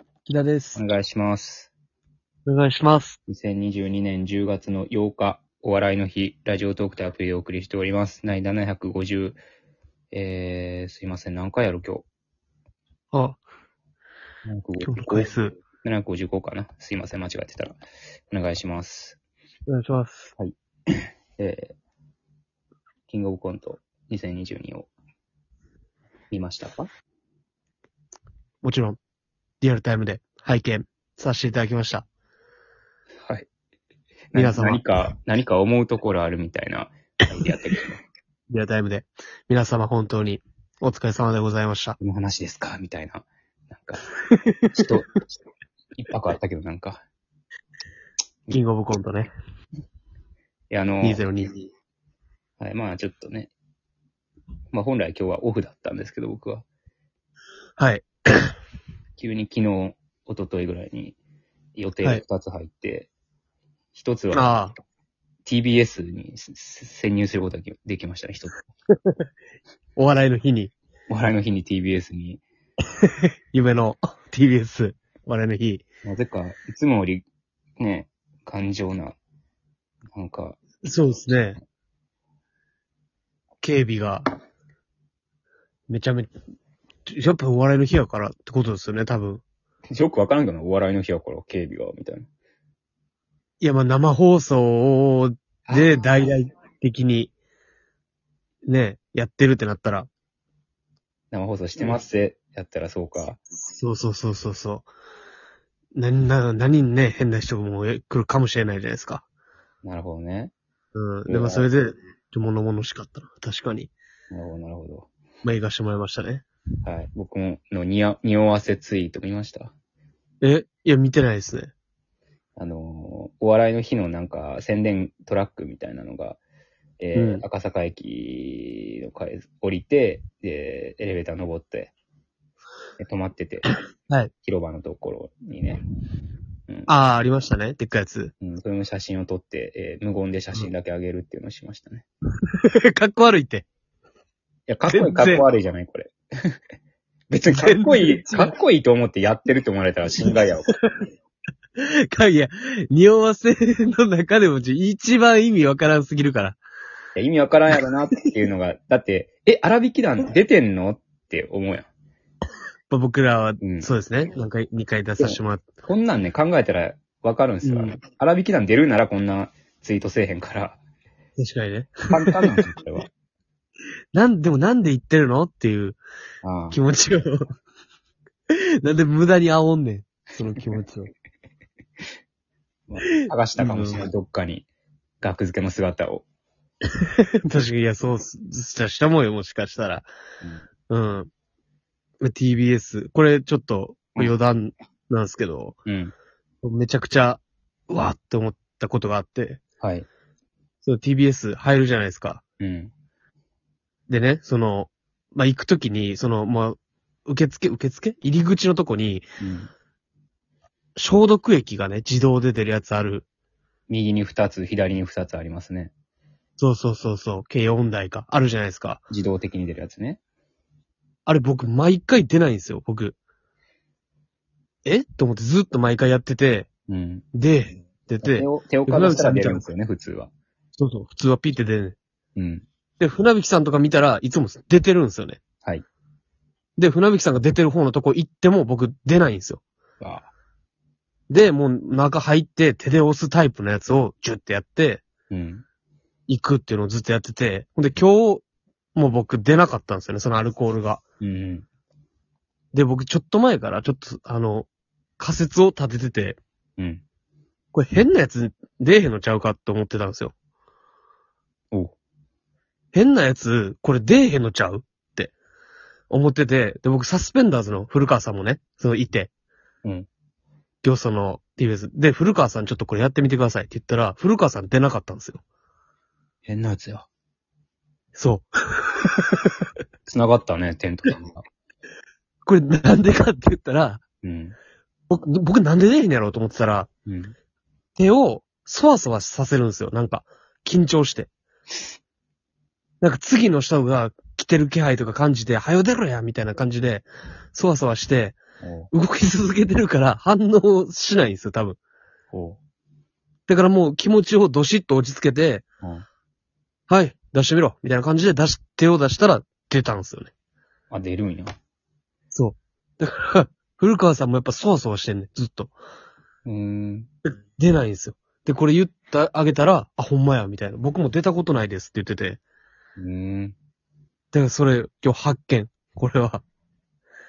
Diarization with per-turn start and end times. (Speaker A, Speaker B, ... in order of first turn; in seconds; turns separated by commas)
Speaker A: 0.3-0.8, Speaker B: 0.8-1.7, Speaker A: 2.5-3.2, Speaker B: 3.3-9.4, Speaker B: 10.1-12.1, Speaker A: 13.1-13.4, Speaker B: 14.5-17.8, Speaker A: 14.8-15.6, Speaker B: 18.3-19.2, Speaker A: 19.7-20.3, Speaker B: 20.4-21.8, Speaker B: 23.1-24.9, Speaker B: 26.3-26.9, Speaker A: 28.6-29.0, Speaker A: 29.6-32.1, Speaker B: 34.3-38.0, Speaker A: 34.4-34.9, Speaker A: 38.5-42.0, Speaker B: 42.0-44.0, Speaker A: 44.3-44.9, Speaker B: 44.7-45.2, Speaker B: 46.0-47.0, Speaker A: 48.5-49.3, Speaker B: 50.7-51.2, Speaker A: 51.0-51.7, Speaker B: 52.6-53.5, Speaker B: 54.7-56.6, Speaker A: 57.8-58.5, Speaker B: 59.2-61.2, Speaker B: 61.8-63.1, Speaker B: 63.9-64.7, Speaker A: 64.3-64.8, Speaker B: 65.5-68.6, Speaker A: 70.0-70.7, Speaker B: 71.1-72.4, Speaker A: 73.0-75.8, Speaker B: 76.0-77.3, Speaker B: 77.8-79.2, Speaker B: 80.1-80.6, Speaker A: 80.8-81.6, Speaker A: 83.6-84.3, Speaker A: 85.9-86.3, Speaker A: 87.1-89.4, Speaker B: 89.9-92.3, Speaker A: 93.6-97.3, Speaker B: 95.7-96.1, Speaker A: 98.7-100.1, Speaker B: 101.3-103.4, Speaker A: 101.8-102.0, Speaker A: 103.6-104.9, Speaker A: 106.0-109.2, Speaker B: 109.8-110.5, Speaker A: 111.0-113.9, Speaker B: 111.3-111.7, Speaker B: 114.3-115.1, Speaker A: 115.4-116.5, Speaker B: 116.8-119.7, Speaker A: 120.4-121.7, Speaker B: 122.6-126.4, Speaker B: 127.0-131.9, Speaker A: 127.2-127.4, Speaker B: 133.0-133.7, Speaker B: 134.4-135.8, Speaker A: 136.9-138.3, Speaker B: 138.4-142.1, Speaker A: 142.6-143.7, Speaker B: 144.7-146.6, Speaker A: 144.9-145.5, Speaker B: 147.3-150.7, Speaker A: 147.5-148.5, Speaker A: 150.2-150.9, Speaker A: 151.8-156.6, Speaker B: 157.2-161.9, Speaker A: 162.9-165.7, Speaker B: 163.6-163.9, Speaker B: 165.2-170.8, Speaker A: 167.6-168.0, Speaker A: 171.4-172.5, Speaker B: 172.1-173.1, Speaker A: 174.1-176.0, Speaker B: 176.4-176.8, Speaker A: 176.7-177.5, Speaker A: 178.8-181.1, Speaker B: 182.9-184.7, Speaker A: 183.1-184.0, Speaker B: 185.2-186.2, Speaker A: 187.5-190.1, Speaker A: 190.9-191.3, Speaker A: 192.2-195.8, Speaker B: 195.9-196.1, Speaker A: 196.6-199.6, Speaker B: 199.8-200.1, Speaker A: 200.8-202.4, Speaker B: 202.6-202.9, Speaker A: 204.1-209.3, Speaker B: 209.4-209.7, Speaker A: 211.0-213.3, Speaker B: 213.9-215.9, Speaker A: 216.6-219.0, Speaker B: 219.1-220.2, Speaker A: 221.3-223.2, Speaker A: 224.8-226.7, Speaker B: 226.9-227.2, Speaker A: 227.3-229.7, Speaker B: 228.2-230.3, Speaker A: 230.8-232.0, Speaker B: 232.4-232.7, Speaker A: 233.0-235.4, Speaker A: 236.8-239.6, Speaker B: 240.0-240.3, Speaker A: 241.3-245.0, Speaker B: 245.3-245.6, Speaker A: 246.3-248.4, Speaker A: 248.9-251.0, Speaker B: 251.2-251.7, Speaker A: 252.7-254.7, Speaker A: 255.2-256.4, Speaker B: 256.8-257.0, Speaker A: 257.7-260.3, Speaker A: 262.9-265.3, Speaker A: 266.1-269.3, Speaker A: 270.8-275.4, Speaker B: 276.4-277.1, Speaker A: 278.1-279.5, Speaker B: 280.1-281.4, Speaker A: 282.5-284.0, Speaker B: 284.2-284.6, Speaker A: 285.1-286.9, Speaker B: 287.1-287.4, Speaker A: 288.0-291.3, Speaker A: 293.0-298.4, Speaker B: 298.6-298.9, Speaker A: 298.9-301.8, Speaker B: 302.3-302.6, Speaker A: 303.5-305.6, Speaker A: 306.9-310.3, Speaker B: 310.9-311.6, Speaker A: 312.3-315.8, Speaker B: 316.4-317.1, Speaker A: 317.6-322.4, Speaker B: 323.0-323.6, Speaker A: 324.3-326.4